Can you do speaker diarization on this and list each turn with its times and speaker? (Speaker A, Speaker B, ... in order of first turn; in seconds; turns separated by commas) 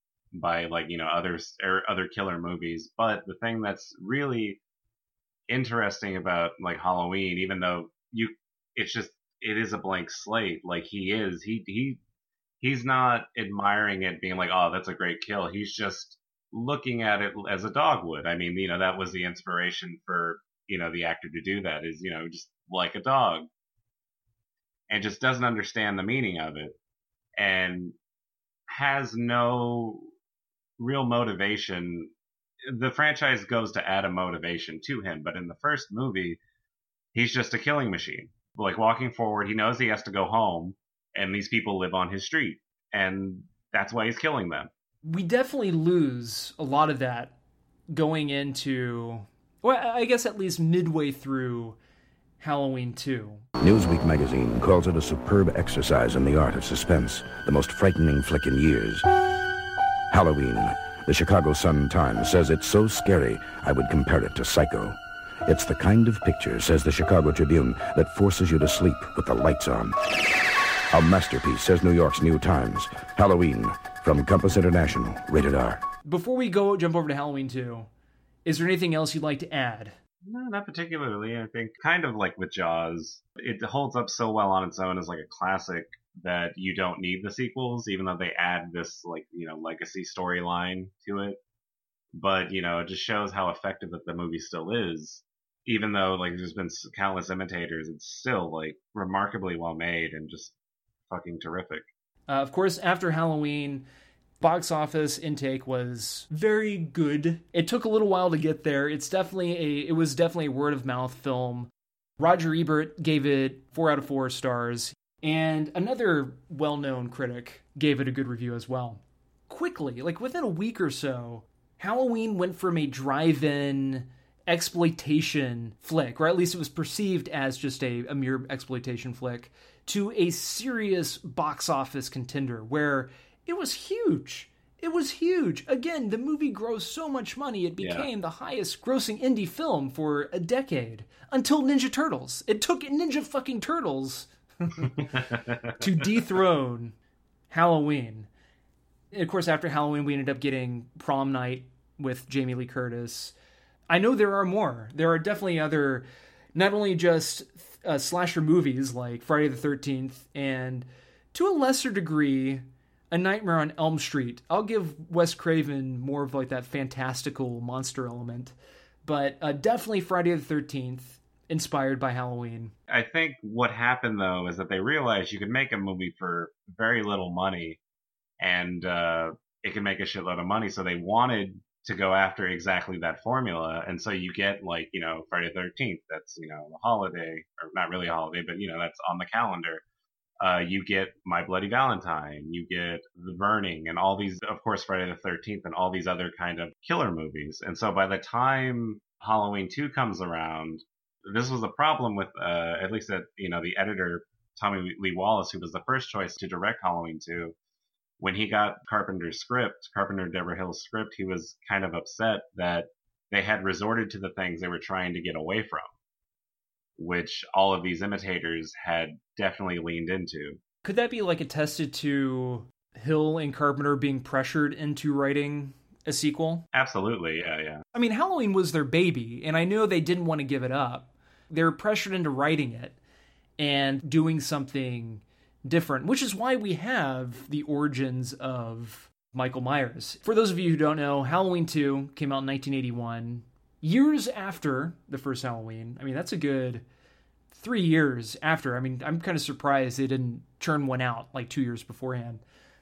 Speaker A: 0.3-4.6, Speaker A: 5.5-12.0, Speaker A: 12.6-23.5, Speaker A: 24.9-26.8, Speaker A: 27.4-27.9, Speaker A: 28.7-30.1, Speaker A: 30.8-32.1, Speaker A: 32.7-36.4, Speaker A: 37.1-44.7, Speaker B: 45.0-47.4, Speaker B: 47.9-51.8, Speaker B: 52.4-53.4, Speaker C: 53.6-59.0, Speaker C: 60.1-70.0, Speaker C: 70.9-75.8, Speaker B: 76.0-77.9, Speaker B: 78.5-80.0, Speaker A: 80.2-91.4, Speaker A: 92.1-100.5, Speaker A: 101.1-101.9, Speaker B: 102.3-103.9, Speaker B: 104.4-144.3, Speaker A: 137.8-138.1, Speaker A: 144.8-146.2, Speaker B: 145.8-146.9, Speaker B: 147.5-148.3, Speaker B: 149.1-153.3, Speaker B: 153.9-172.7, Speaker A: 172.9-177.8, Speaker A: 178.4-189.8, Speaker A: 190.4-207.6, Speaker A: 208.2-215.9, Speaker A: 217.0-220.6, Speaker B: 220.8-226.7, Speaker A: 226.7-227.8, Speaker B: 227.9-233.0, Speaker B: 233.6-246.8, Speaker B: 247.5-252.4